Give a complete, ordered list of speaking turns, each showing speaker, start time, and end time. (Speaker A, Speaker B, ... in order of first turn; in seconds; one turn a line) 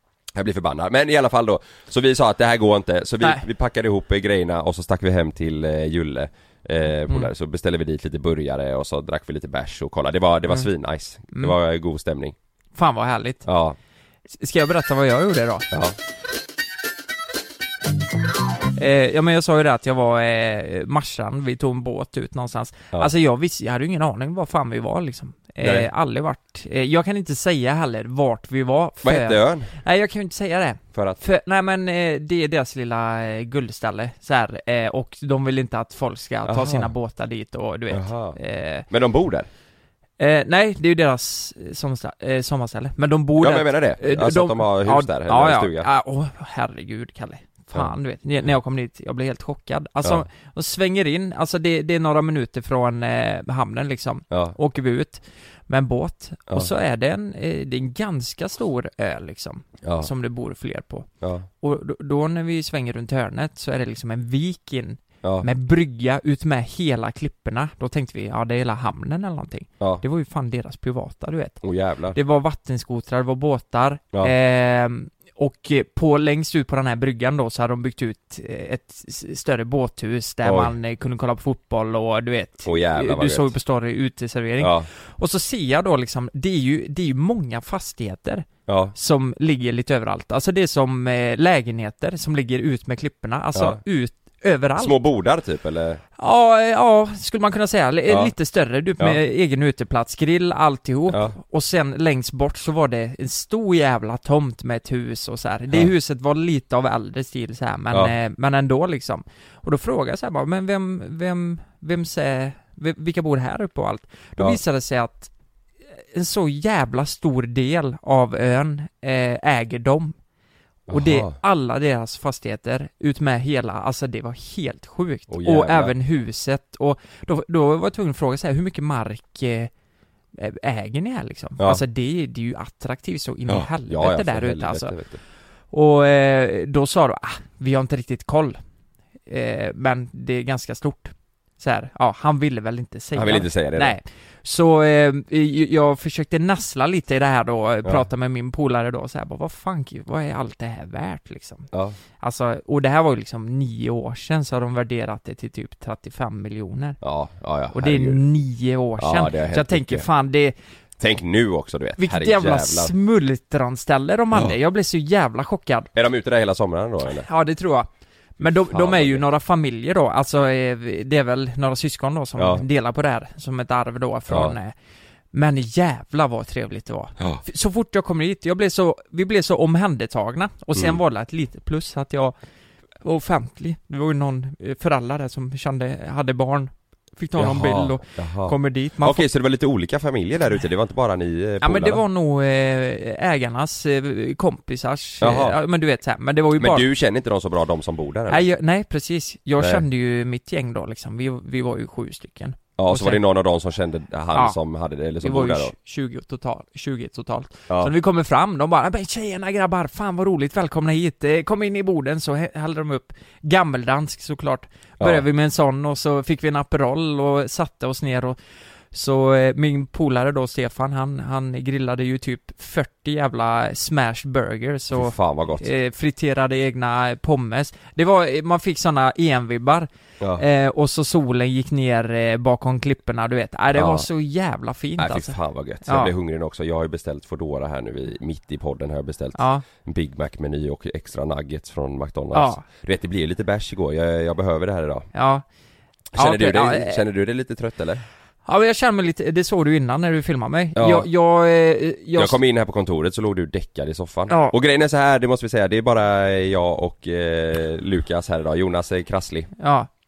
Speaker A: 0.3-12.3
Speaker B: 12.8-13.5
Speaker A: 13.5-13.8
Speaker B: 14.3-15.7
Speaker B: 18.8-38.9
Speaker A: 25.6-25.9
Speaker A: 29.0-29.7
Speaker A: 30.9-31.2
Speaker A: 36.5-36.9
Speaker A: 37.9-39.5
Speaker B: 40.2-61.1
Speaker A: 43.4-45.9
Speaker A: 54.3-54.6
Speaker A: 59.8-60.1
Speaker A: 61.2-61.5
Speaker B: 61.6-71.6
Speaker A: 71.6-72.2
Speaker B: 72.1-95.0
Speaker A: 80.4-80.7
Speaker A: 82.6-83.5
Speaker A: 84.6-84.9
Speaker A: 88.7-89.0
Speaker A: 93.5-93.8
Speaker A: 94.8-96.0
Speaker B: 96.2-115.3
Speaker A: 98.1-98.3
Speaker A: 101.1-101.3
Speaker B: 116.1-120.2
Speaker A: 120.9-121.4
Speaker B: 120.9-129.7
Speaker A: 125.3-125.9
Speaker B: 130.4-134.9
Speaker A: 133.5-135.2
Speaker B: 135.7-138.6
Speaker B: 139.3-151.7
Speaker A: 143.2-144.0
Speaker A: 151.7-152.0
Speaker B: 152.2-157.0
Speaker A: 157.0-158.2
Speaker B: 157.7-160.6
Speaker A: 159.0-160.1
Speaker A: 161.0-162.9
Speaker B: 162.0-165.9
Speaker A: 165.9-167.3
Speaker B: 167.2-167.9
Speaker B: 168.4-174.7
Speaker A: 168.4-169.2
Speaker A: 172.4-172.6
Speaker A: 174.3-174.6
Speaker B: 175.3-182.3
Speaker A: 180.8-181.0
Speaker B: 183.0-189.2
Speaker A: 187.4-192.0
Speaker B: 191.6-196.9
Speaker A: 195.2-195.6
Speaker A: 196.6-198.4
Speaker B: 198.3-203.2
Speaker A: 199.6-199.8
Speaker A: 202.8-205.7
Speaker B: 205.2-218.4
Speaker B: 218.9-236.1
Speaker A: 224.9-225.7
Speaker A: 233.7-234.1
Speaker A: 235.0-245.1
Speaker B: 239.3-239.7
Speaker B: 242.3-242.6
Speaker B: 245.1-245.4
Speaker A: 246.1-248.0
Speaker B: 246.2-247.0
Speaker B: 248.5-252.4
Speaker A: 250.8-251.1
Speaker A: 252.2-259.5
Speaker B: 254.3-254.6
Speaker B: 259.6-259.9